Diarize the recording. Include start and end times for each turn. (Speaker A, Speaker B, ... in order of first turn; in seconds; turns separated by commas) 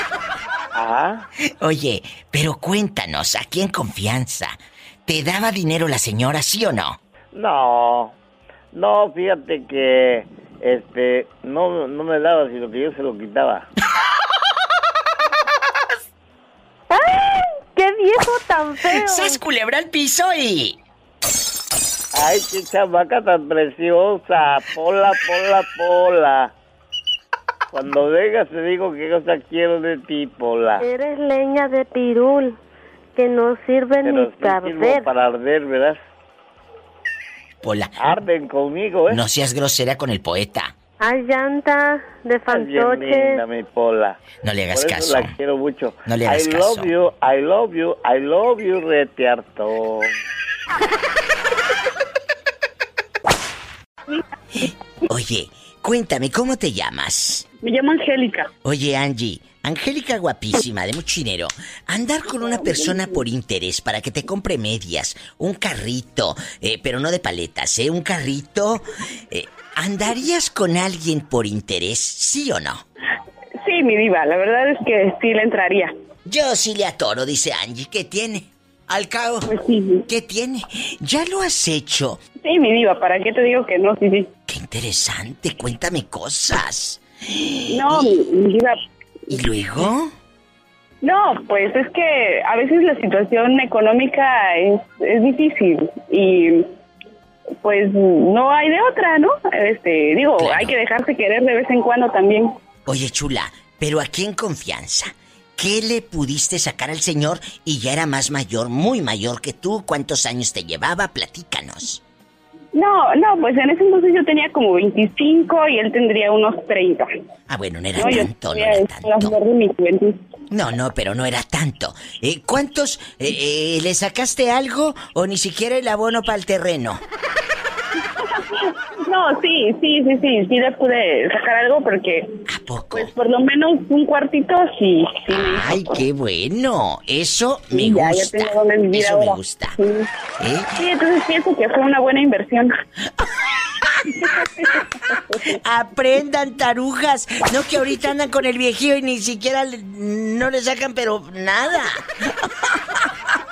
Speaker A: 0.7-1.3, Speaker B: 1.6-7.0, Speaker A: 7.3-8.2, Speaker A: 8.7-13.7, Speaker C: 16.9-19.4, Speaker B: 18.9-20.8, Speaker A: 22.1-26.5, Speaker A: 27.7-30.9, Speaker C: 30.8-32.6, Speaker C: 33.2-35.1, Speaker A: 34.0-36.0, Speaker B: 37.6-38.0, Speaker A: 38.0-39.2, Speaker B: 39.1-40.7, Speaker C: 41.0-43.4, Speaker A: 42.5-44.2, Speaker B: 44.4-45.3, Speaker A: 44.7-50.2, Speaker B: 46.1-46.9, Speaker B: 55.1-57.5, Speaker D: 57.6-58.5, Speaker B: 58.6-72.8, Speaker D: 62.3-63.2, Speaker D: 73.6-75.9, Speaker B: 76.3-79.5, Speaker D: 79.5-80.1, Speaker B: 80.1-82.2, Speaker D: 82.4-84.3, Speaker B: 84.5-88.2, Speaker D: 87.7-88.8, Speaker B: 89.3-90.1, Speaker D: 91.0-96.7, Speaker D: 97.6-102.6, Speaker B: 100.4-100.8, Speaker B: 102.9-112.0, Speaker D: 112.7-117.1, Speaker B: 117.5-119.4, Speaker D: 118.0-120.2, Speaker B: 120.5-127.0, Speaker D: 128.7-132.4, Speaker B: 132.5-133.1, Speaker D: 132.9-136.0, Speaker B: 135.3-139.8, Speaker D: 137.7-140.1, Speaker B: 140.4-140.8, Speaker D: 140.8-142.7, Speaker B: 143.2-144.4, Speaker D: 144.2-145.6, Speaker B: 145.5-153.0